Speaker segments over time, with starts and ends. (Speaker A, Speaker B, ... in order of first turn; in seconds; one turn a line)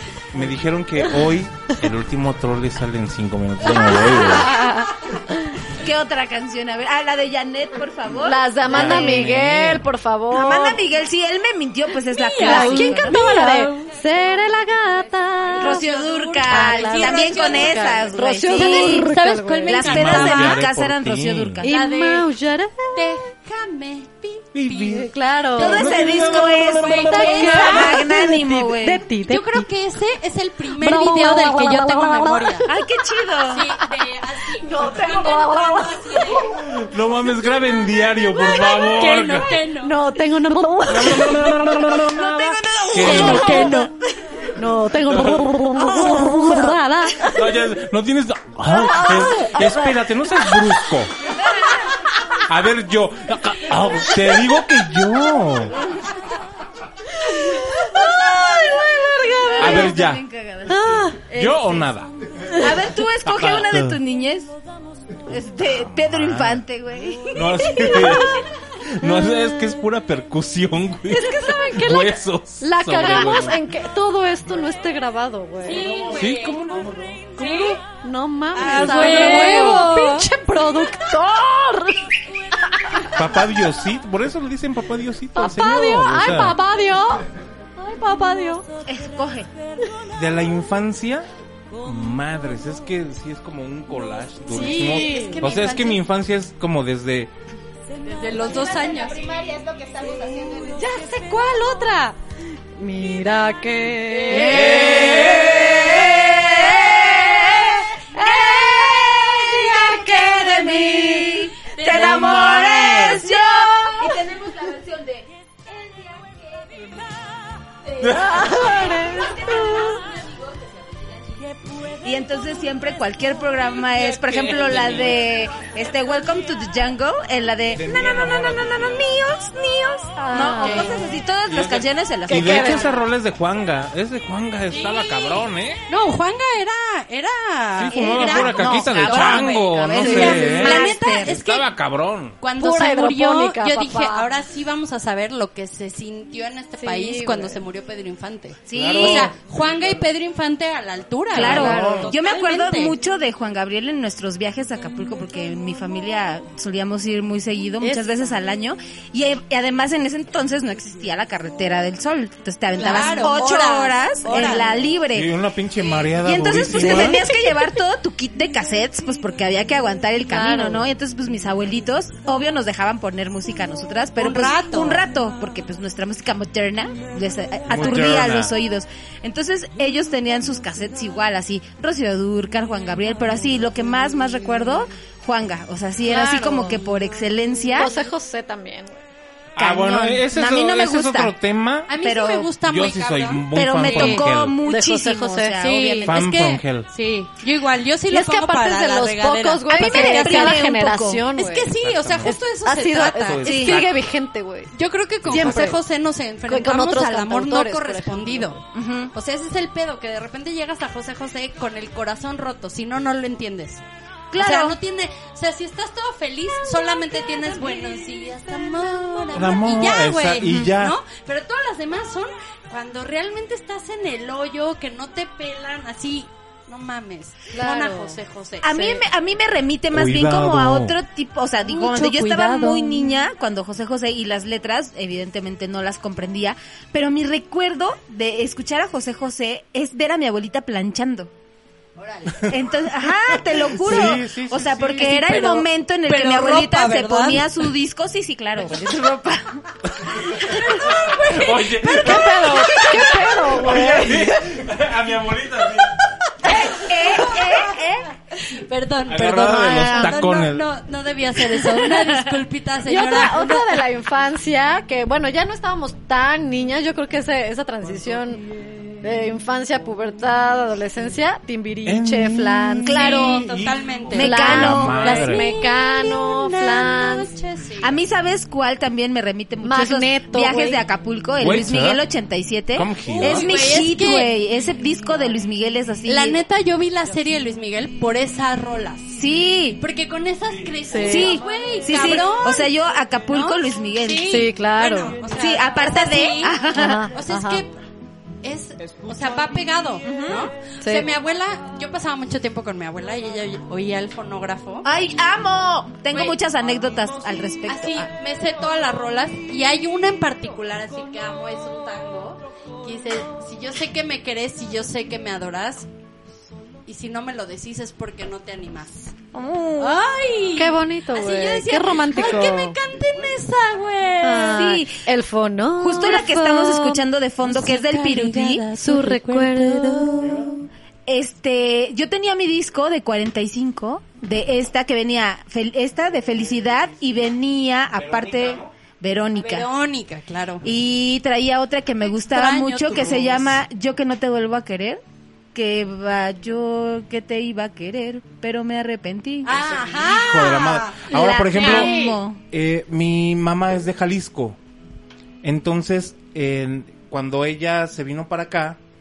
Speaker A: 0.3-4.5
Speaker B: 3.6-5.6
Speaker C: 5.7-9.3
Speaker B: 8.2-10.8
Speaker A: 8.7-9.8
Speaker C: 10.3-13.2
Speaker D: 12.1-13.9
Speaker B: 12.4-15.8
Speaker D: 15.4-20.6
Speaker C: 15.6-19.1
Speaker B: 16.4-19.9
Speaker C: 19.6-21.7
Speaker A: 19.8-21.6
Speaker B: 21.6-23.1
Speaker D: 21.6-22.3
Speaker D: 22.9-25.0
Speaker A: 24.5-25.1
Speaker B: 24.9-25.9
Speaker D: 25.5-28.1
Speaker C: 25.6-29.1
Speaker A: 25.6-27.9
Speaker B: 27.2-29.7
Speaker D: 29.2-32.7
Speaker B: 30.7-32.7
Speaker C: 32.7-33.7
Speaker D: 33.5-36.4
Speaker B: 34.6-36.5
Speaker A: 36.5-39.5
Speaker D: 38.3-40.0
Speaker B: 39.8-41.6
Speaker A: 40.9-43.8
Speaker D: 42.3-43.9
Speaker B: 42.8-43.9
Speaker B: 44.5-47.5
Speaker A: 45.0-46.1
Speaker C: 46.0-46.6
Speaker A: 47.3-51.1
Speaker B: 48.7-49.9
Speaker C: 51.4-51.9
Speaker A: 52.5-55.8
Speaker B: 57.2-59.9
Speaker C: 59.4-61.2
Speaker A: 59.6-60.2
Speaker B: 60.7-61.9
Speaker A: 61.3-62.1
Speaker C: 62.6-64.5
Speaker A: 63.2-64.0
Speaker C: 65.3-68.4
Speaker A: 66.1-66.6
Speaker A: 67.3-73.6
Speaker B: 67.7-68.4
Speaker B: 71.1-75.9
Speaker D: 75.6-76.6
Speaker A: 75.8-77.8
Speaker D: 77.3-77.8
Speaker B: 77.8-83.1
Speaker D: 78.5-80.3
Speaker A: 78.6-79.9
Speaker A: 83.1-86.5
Speaker B: 85.3-87.3
Speaker B: 87.8-88.7
Speaker C: 88.9-89.5
Speaker A: 90.1-91.3
Speaker A: 91.8-97.3
Speaker B: 94.5-95.4
Speaker D: 94.8-96.0
Speaker D: 98.0-100.8
Speaker B: 100.4-102.2
Speaker B: 102.8-105.2
Speaker D: 104.1-105.7
Speaker C: 104.3-117.2
Speaker A: 104.4-106.2
Speaker B: 108.2-109.0
Speaker D: 109.2-111.1
Speaker B: 109.6-111.4
Speaker D: 111.6-113.3
Speaker A: 111.9-113.1
Speaker C: 117.8-132.8
Speaker B: 118.0-120.0
Speaker A: 124.0-125.2
Speaker A: 127.7-129.1
Speaker B: 130.2-131.0
Speaker D: 130.6-131.0
Speaker A: 131.4-135.8
Speaker B: 132.2-133.0
Speaker D: 134.7-141.7
Speaker A: 137.7-142.4
Speaker C: 137.9-141.4
Speaker B: 139.9-140.7
Speaker D: 142.4-152.9
Speaker B: 142.6-144.3
Speaker B: 146.8-147.6
Speaker C: 148.7-149.3
Speaker A: 148.7-149.3
Speaker C: 151.3-165.3
Speaker A: 151.3-152.1
Speaker B: 151.5-152.0
Speaker B: 157.8-158.4
Speaker D: 162.8-164.7
Speaker B: 164.3-164.6
Speaker A: 165.1-167.2
Speaker C: 165.9-187.9
Speaker B: 166.8-167.7
Speaker B: 170.3-170.8
Speaker D: 174.2-175.0
Speaker A: 177.7-178.5
Speaker D: 186.1-187.0
Speaker B: 187.7-189.0
Speaker C: 189.6-191.3
Speaker A: 189.6-191.9
Speaker D: 191.9-194.2
Speaker C: 192.0-192.5
Speaker A: 192.6-194.6
Speaker C: 193.5-196.3
Speaker B: 194.6-196.1
Speaker D: 195.6-200.7
Speaker A: 196.1-196.9
Speaker B: 198.1-201.7
Speaker C: 199.7-201.2
Speaker D: 201.3-203.8
Speaker A: 201.8-202.3
Speaker B: 202.2-204.7
Speaker A: 203.2-203.9
Speaker C: 203.4-203.8
Speaker D: 204.7-208.6
Speaker B: 205.2-205.8
Speaker B: 206.5-208.5
Speaker C: 208.7-209.1
Speaker D: 209.1-213.8
Speaker C: 214.3-214.8
Speaker D: 214.4-228.7
Speaker A: 219.3-220.9
Speaker C: 220.4-220.7
Speaker B: 227.5-228.2
Speaker C: 228.6-241.3
Speaker B: 228.7-229.0
Speaker A: 229.9-231.0
Speaker D: 231.7-233.2
Speaker D: 241.9-242.6
Speaker C: 242.5-249.7
Speaker A: 243.7-245.3
Speaker D: 245.0-247.6
Speaker A: 249.9-253.0
Speaker C: 250.2-251.1
Speaker B: 251.9-254.4
Speaker A: 253.5-256.0
Speaker C: 256.4-258.1
Speaker D: 256.9-257.8
Speaker D: 258.3-263.8
Speaker A: 259.1-260.6
Speaker C: 259.7-260.2
Speaker C: 261.8-262.4
Speaker B: 262.8-268.4
Speaker B: 269.0-272.9
Speaker A: 271.8-275.4
Speaker C: 272.8-273.5
Speaker D: 272.9-277.9
Speaker C: 274.1-275.2
Speaker B: 274.2-277.3
Speaker C: 277.8-286.4
Speaker B: 279.6-280.8
Speaker A: 281.4-282.0
Speaker A: 282.7-283.4
Speaker D: 283.1-284.3
Speaker D: 286.1-289.2
Speaker C: 289.1-289.8
Speaker D: 289.8-292.7
Speaker B: 290.9-291.3
Speaker C: 291.0-294.4
Speaker D: 293.3-297.7
Speaker B: 294.3-295.1
Speaker C: 295.4-297.1
Speaker B: 296.7-297.6
Speaker D: 298.4-304.9
Speaker C: 300.0-300.5
Speaker C: 304.8-308.1
Speaker D: 306.1-306.4
Speaker D: 307.6-315.9
Speaker D: 316.9-319.1
Speaker C: 319.3-320.0
Speaker D: 319.8-324.6
Speaker B: 320.6-322.8
Speaker B: 324.2-327.0
Speaker C: 324.5-325.1
Speaker C: 325.8-328.6
Speaker D: 327.4-330.5
Speaker B: 328.8-330.5
Speaker C: 331.1-339.7
Speaker A: 337.9-338.7
Speaker D: 339.3-340.7
Speaker C: 340.6-345.0
Speaker D: 342.3-343.6
Speaker C: 345.5-349.5
Speaker D: 349.4-352.2
Speaker A: 349.5-351.9
Speaker C: 351.1-352.4
Speaker A: 352.5-354.6
Speaker A: 355.4-358.8